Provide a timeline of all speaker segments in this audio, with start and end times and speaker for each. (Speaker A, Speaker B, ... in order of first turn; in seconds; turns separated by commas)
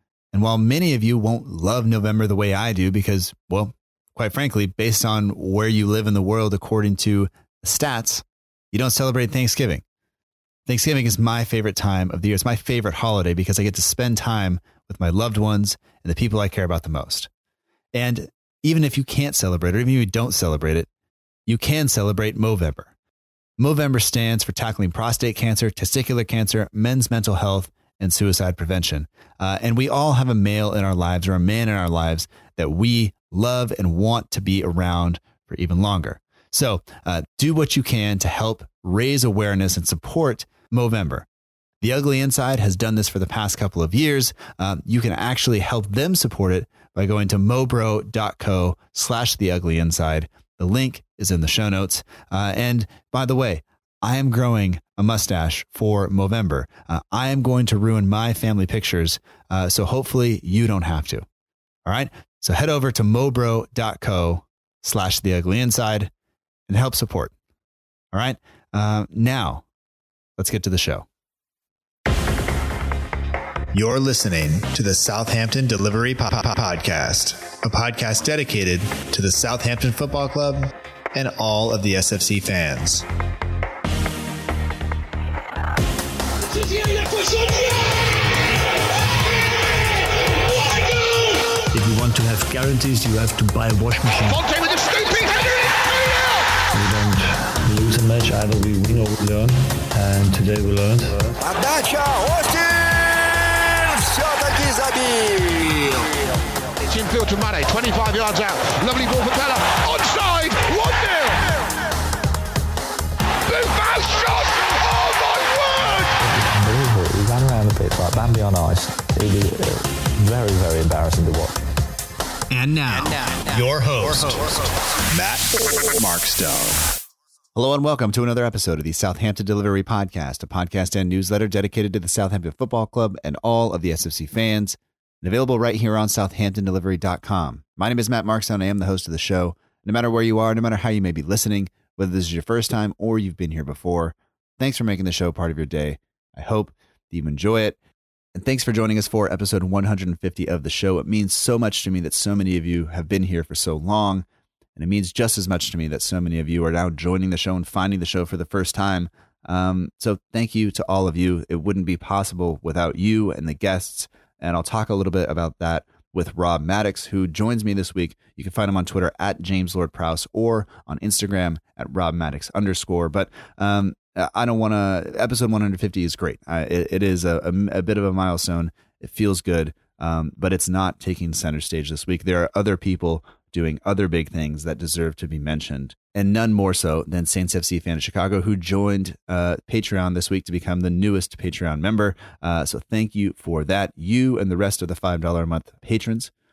Speaker A: 0.3-9.8, Speaker A: 10.7-17.3, Speaker A: 17.9-20.9, Speaker A: 21.5-22.9, Speaker A: 23.6-41.2, Speaker A: 41.8-61.2, Speaker A: 61.9-66.1, Speaker A: 66.7-67.3, Speaker A: 68.1-69.6, Speaker A: 70.4-71.0, Speaker A: 73.7-83.0, Speaker B: 91.7-94.4, Speaker C: 94.2-96.4, Speaker B: 96.7-101.3, Speaker D: 101.4-106.3, Speaker C: 106.8-111.5, Speaker C: 113.5-116.1, Speaker D: 116.2-121.6, Speaker A: 122.5-124.5, Speaker A: 125.1-126.8, Speaker A: 127.5-147.7, Speaker A: 148.3-154.2, Speaker A: 154.8-196.3